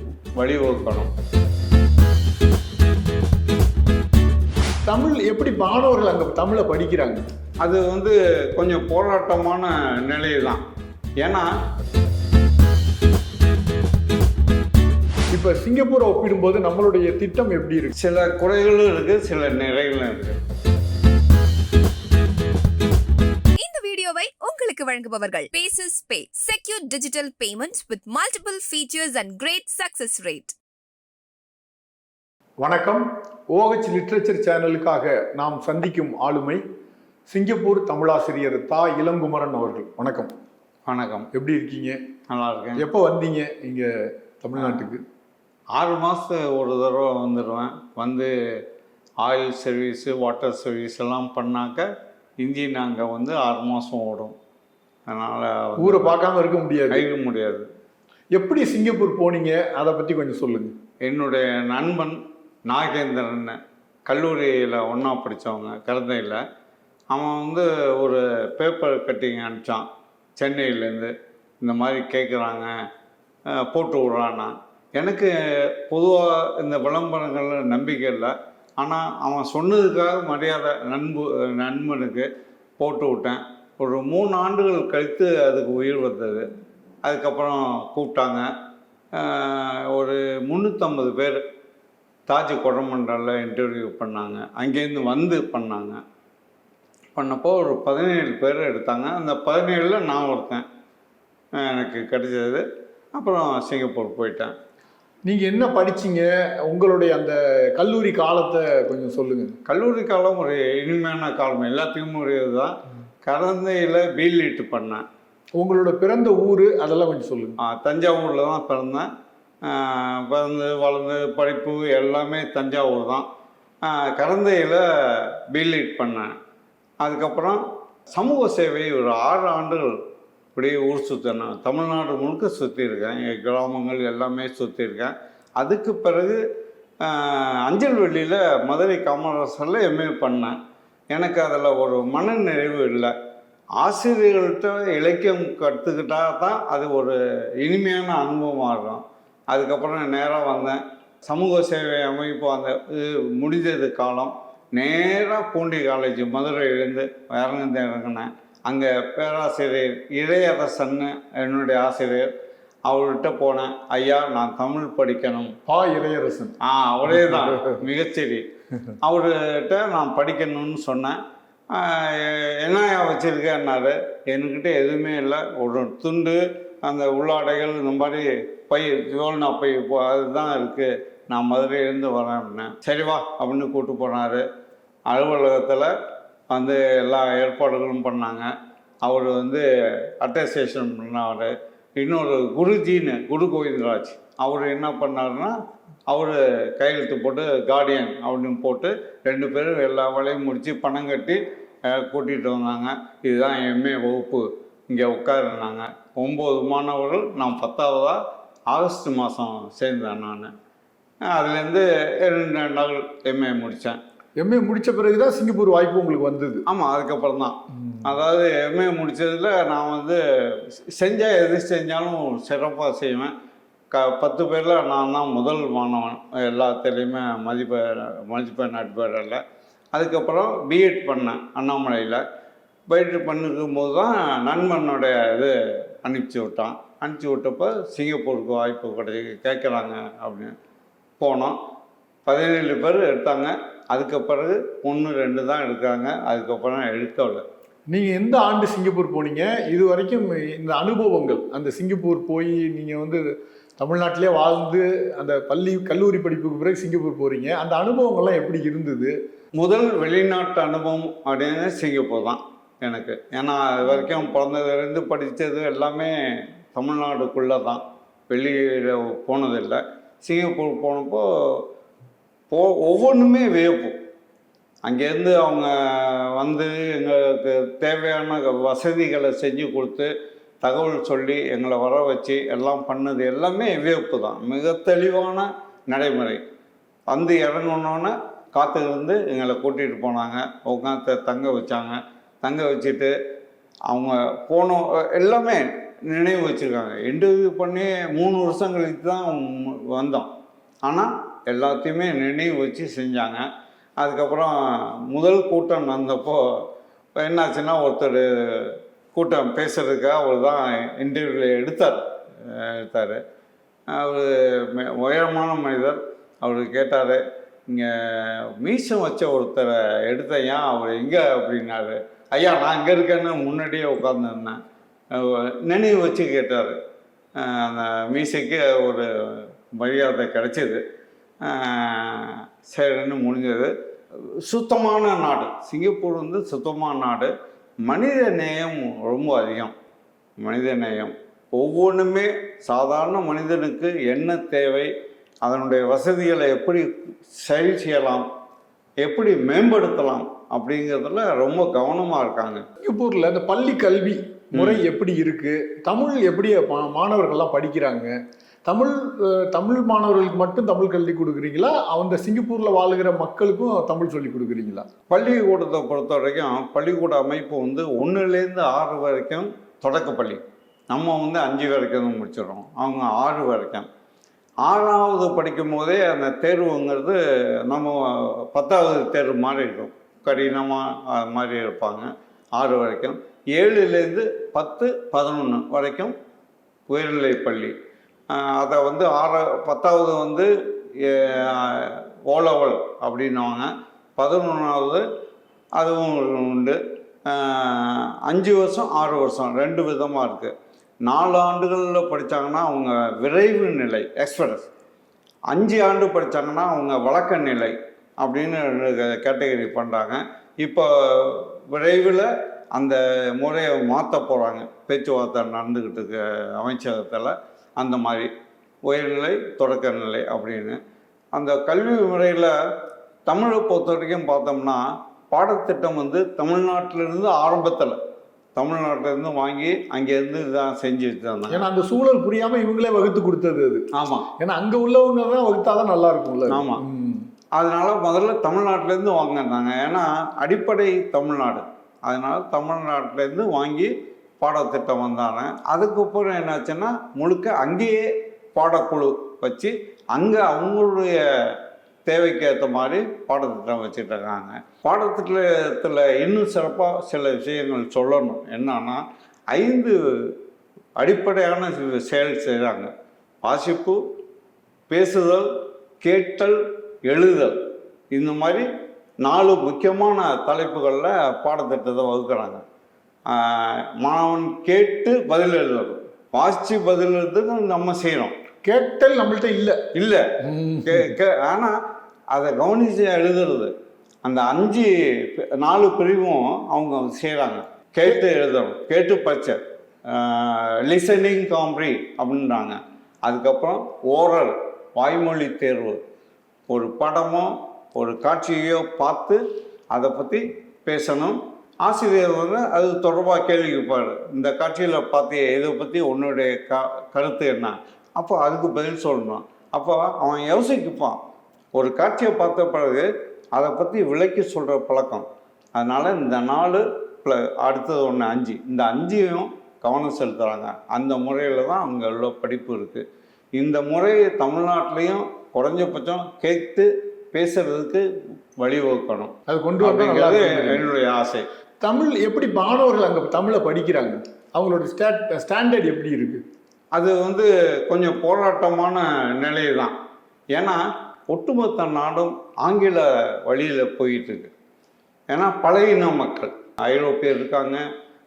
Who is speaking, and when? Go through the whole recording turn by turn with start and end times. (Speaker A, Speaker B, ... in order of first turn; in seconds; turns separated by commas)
Speaker A: 0.4-1.1, Speaker B: 4.8-7.2, Speaker A: 7.6-10.6, Speaker A: 11.2-11.5, Speaker B: 15.3-17.9, Speaker A: 17.9-20.4, Speaker C: 23.6-30.5, Speaker B: 32.6-36.6, Speaker B: 37.3-40.3, Speaker A: 40.9-41.3, Speaker B: 41.3-42.0, Speaker A: 42.3-42.8, Speaker B: 42.8-43.9, Speaker B: 44.4-45.0, Speaker A: 44.6-44.9, Speaker A: 45.7-48.3, Speaker A: 49.2-51.9, Speaker A: 52.4-54.4, Speaker A: 55.1-56.2, Speaker B: 55.8-57.0, Speaker A: 56.9-57.7, Speaker B: 58.3-60.7, Speaker A: 61.0-66.4, Speaker A: 67.1-69.9, Speaker A: 70.4-72.7, Speaker A: 73.5-82.3, Speaker A: 82.8-86.4, Speaker A: 87.0-88.5, Speaker A: 89.1-91.4, Speaker A: 92.3-96.0, Speaker A: 97.2-100.7, Speaker A: 101.5-104.5, Speaker B: 105.2-109.5, Speaker A: 109.7-115.0, Speaker B: 115.6-117.5, Speaker A: 117.6-119.1, Speaker A: 119.6-123.3, Speaker A: 123.8-126.3, Speaker A: 127.0-130.0, Speaker A: 130.5-136.4, Speaker A: 137.0-140.6, Speaker A: 141.1-143.1, Speaker A: 143.8-162.3, Speaker A: 162.8-165.5, Speaker B: 165.7-166.6, Speaker A: 166.6-168.4, Speaker B: 167.1-167.8, Speaker A: 169.0-171.2, Speaker A: 171.7-184.4, Speaker A: 185.1-185.9, Speaker A: 186.5-188.5, Speaker A: 189.0-189.6, Speaker A: 190.2-195.5, Speaker A: 196.1-208.2, Speaker A: 208.7-210.5, Speaker A: 211.3-214.0, Speaker B: 214.4-216.6, Speaker A: 216.7-223.3, Speaker A: 223.9-229.4, Speaker A: 229.9-232.2, Speaker A: 232.9-240.5, Speaker A: 241.2-241.6, Speaker A: 242.2-247.4, Speaker B: 247.9-253.2, Speaker B: 253.8-259.1, Speaker A: 259.6-271.6, Speaker A: 272.5-274.0, Speaker A: 274.8-280.1, Speaker A: 280.6-286.4, Speaker A: 287.1-293.1, Speaker A: 293.9-300.3, Speaker A: 300.9-303.4, Speaker A: 304.0-306.6, Speaker A: 307.2-313.2, Speaker A: 313.9-324.6, Speaker A: 325.1-326.8, Speaker A: 327.4-330.8, Speaker A: 331.4-333.7, Speaker A: 334.2-337.3, Speaker A: 337.8-339.7, Speaker A: 340.4-344.9, Speaker A: 345.4-348.2, Speaker A: 349.0-352.6, Speaker B: 352.8-358.1, Speaker A: 354.5-354.8, Speaker B: 358.6-364.9, Speaker A: 365.1-373.9, Speaker A: 374.6-386.1, Speaker A: 386.9-387.7, Speaker A: 388.3-395.0, Speaker A: 395.8-400.5, Speaker A: 401.0-404.7, Speaker A: 405.5-418.3, Speaker A: 418.9-420.8, Speaker A: 421.3-422.5, Speaker A: 423.3-428.0, Speaker A: 428.5-431.6, Speaker B: 431.5-437.3, Speaker A: 433.9-434.3, Speaker A: 436.5-436.8, Speaker A: 437.6-460.3, Speaker A: 461.0-462.9, Speaker A: 463.4-464.0, Speaker A: 464.9-465.5, Speaker A: 466.0-467.6, Speaker A: 468.1-468.6, Speaker A: 469.2-472.6, Speaker A: 473.3-478.3, Speaker B: 478.6-479.9, Speaker A: 479.9-480.3, Speaker B: 480.4-481.1, Speaker A: 480.8-481.8, Speaker A: 482.3-483.7, Speaker A: 484.2-489.6, Speaker A: 490.1-496.0, Speaker A: 496.7-499.4, Speaker A: 499.9-511.2, Speaker A: 511.7-523.0, Speaker A: 523.5-528.0, Speaker A: 528.6-531.5, Speaker B: 529.5-530.9, Speaker B: 531.8-536.4, Speaker A: 536.9-539.9, Speaker A: 540.5-544.5, Speaker A: 545.3-547.8